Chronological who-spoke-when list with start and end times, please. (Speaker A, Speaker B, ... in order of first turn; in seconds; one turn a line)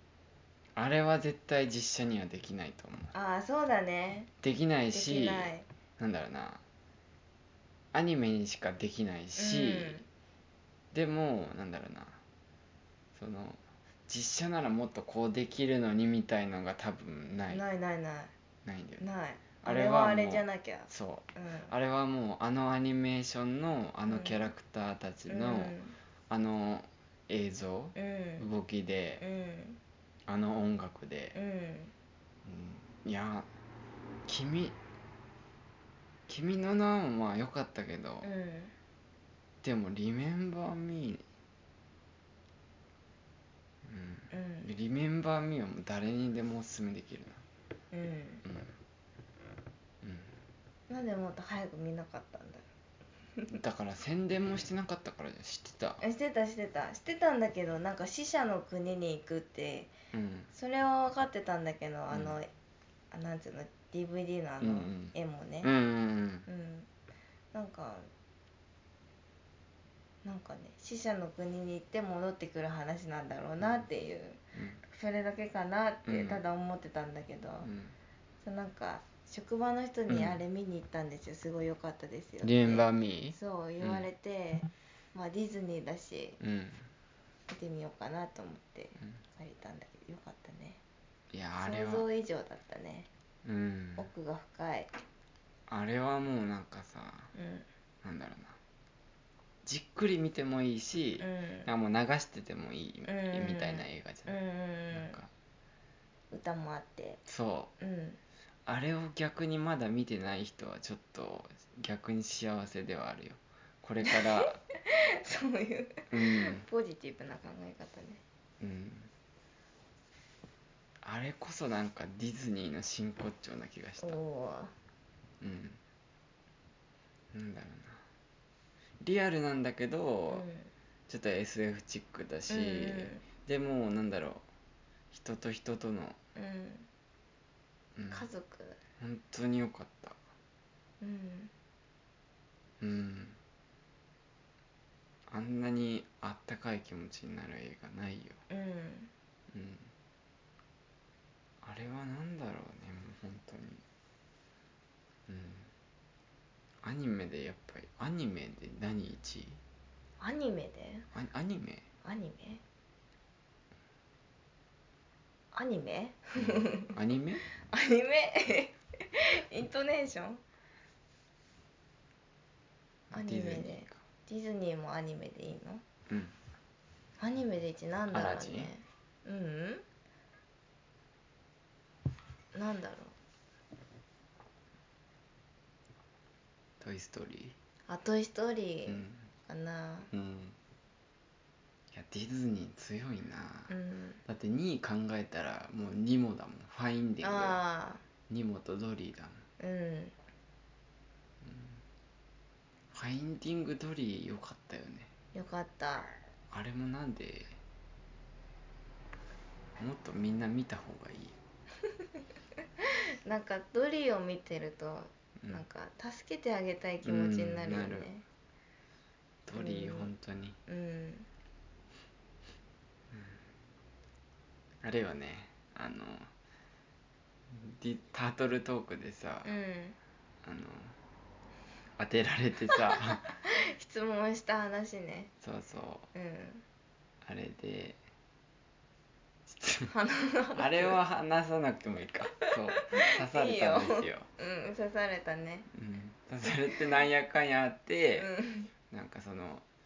Speaker A: 0.8-3.1
Speaker B: 3.1-4.3
Speaker A: 4.4-6.6
Speaker B: 4.9-5.7
Speaker A: 7.9-10.0
Speaker B: 9.3-10.1
Speaker A: 10.9-12.2
Speaker A: 13.2-17.6
Speaker B: 17.5-18.3
Speaker A: 18.6-19.1
Speaker B: 19.0-21.7
Speaker A: 19.6-25.8
Speaker B: 24.1-24.5
Speaker B: 25.3-26.0
Speaker A: 26.3-29.2
Speaker B: 27.9-28.4
Speaker B: 29.2-29.8
Speaker A: 30.3-31.4
Speaker B: 31.3-31.9
Speaker A: 32.4-33.5
Speaker A: 34.3-34.8
Speaker A: 36.3-38.3
Speaker B: 38.2-38.7
Speaker A: 39.6-41.2
Speaker A: 43.8-47.4
Speaker B: 44.3-44.7
Speaker B: 47.9-48.4
Speaker A: 48.4-48.7
Speaker A: 50.0-50.3
Speaker B: 50.9-52.6
Speaker A: 53.5-56.0
Speaker B: 56.0-59.9
Speaker A: 60.1-60.5
Speaker B: 60.5-62.5
Speaker A: 62.1-62.4
Speaker B: 63.1-65.7
Speaker A: 64.6-66.5
Speaker B: 66.5-66.9
Speaker B: 67.5-68.1
Speaker B: 70.2-77.7
Speaker A: 74.5-74.8
Speaker A: 76.0-76.4
Speaker A: 77.6-78.0
Speaker B: 78.4-86.4
Speaker A: 80.1-80.4
Speaker A: 82.4-84.1
Speaker A: 86.4-86.8
Speaker B: 87.5-90.8
Speaker A: 91.3-92.1
Speaker B: 91.6-93.1
Speaker A: 93.4-94.1
Speaker B: 94.0-94.9
Speaker A: 95.7-97.3
Speaker B: 97.3-97.7
Speaker A: 98.0-98.6
Speaker A: 99.7-104.4
Speaker B: 101.2-101.7
Speaker B: 103.0-105.2
Speaker A: 104.9-105.3
Speaker B: 106.3-107.2
Speaker A: 107.2-107.7
Speaker B: 107.8-108.2
Speaker A: 108.7-114.6
Speaker B: 114.1-118.2
Speaker A: 116.1-116.7
Speaker A: 118.6-119.1
Speaker A: 121.0-124.2
Speaker B: 124.0-124.7
Speaker A: 125.4-125.8
Speaker A: 127.3-128.0
Speaker A: 129.0-130.4
Speaker B: 130.3-130.7
Speaker A: 131.1-134.4
Speaker B: 132.5-133.2
Speaker A: 135.1-136.2
Speaker B: 136.3-136.9
Speaker A: 137.9-138.3
Speaker B: 138.1-138.8
Speaker A: 139.0-140.2
Speaker B: 141.0-141.5
Speaker A: 142.8-143.4
Speaker A: 145.3-148.4
Speaker B: 148.5-149.1
Speaker A: 149.5-149.9
Speaker A: 151.6-153.8
Speaker A: 155.3-155.7
Speaker A: 156.8-159.6
Speaker B: 160.2-161.1
Speaker A: 161.1-161.8
Speaker B: 162.0-162.6
Speaker B: 165.5-166.9
Speaker A: 166.4-167.4
Speaker B: 167.6-170.4
Speaker A: 173.1-174.0
Speaker B: 173.1-175.8
Speaker B: 177.2-179.8
Speaker A: 178.1-178.7
Speaker B: 182.5-183.1
Speaker A: 186.8-187.6
Speaker B: 187.9-190.1
Speaker A: 188.9-189.2
Speaker A: 190.1-190.6
Speaker A: 191.9-193.7
Speaker B: 193.7-194.2
Speaker A: 194.2-197.6
Speaker B: 197.2-198.0
Speaker A: 198.3-199.4
Speaker B: 199.6-200.1
Speaker A: 201.4-201.8
Speaker A: 202.9-205.1
Speaker B: 205.3-206.1
Speaker A: 206.5-207.6
Speaker A: 209.8-211.3
Speaker B: 213.2-218.2
Speaker A: 217.0-218.1
Speaker A: 219.4-220.6
Speaker B: 219.5-220.1
Speaker B: 220.7-221.3
Speaker A: 223.1-223.4
Speaker A: 224.8-226.3
Speaker A: 227.5-229.5
Speaker B: 229.4-230.0
Speaker A: 230.4-230.9
Speaker A: 232.0-233.3
Speaker B: 233.3-235.3
Speaker A: 235.4-236.1
Speaker B: 236.1-236.6
Speaker A: 237.2-238.0
Speaker A: 239.4-239.9
Speaker B: 239.9-241.0
Speaker A: 240.6-244.3
Speaker B: 242.5-245.7
Speaker A: 245.7-248.3
Speaker B: 248.2-248.7
Speaker A: 248.9-249.6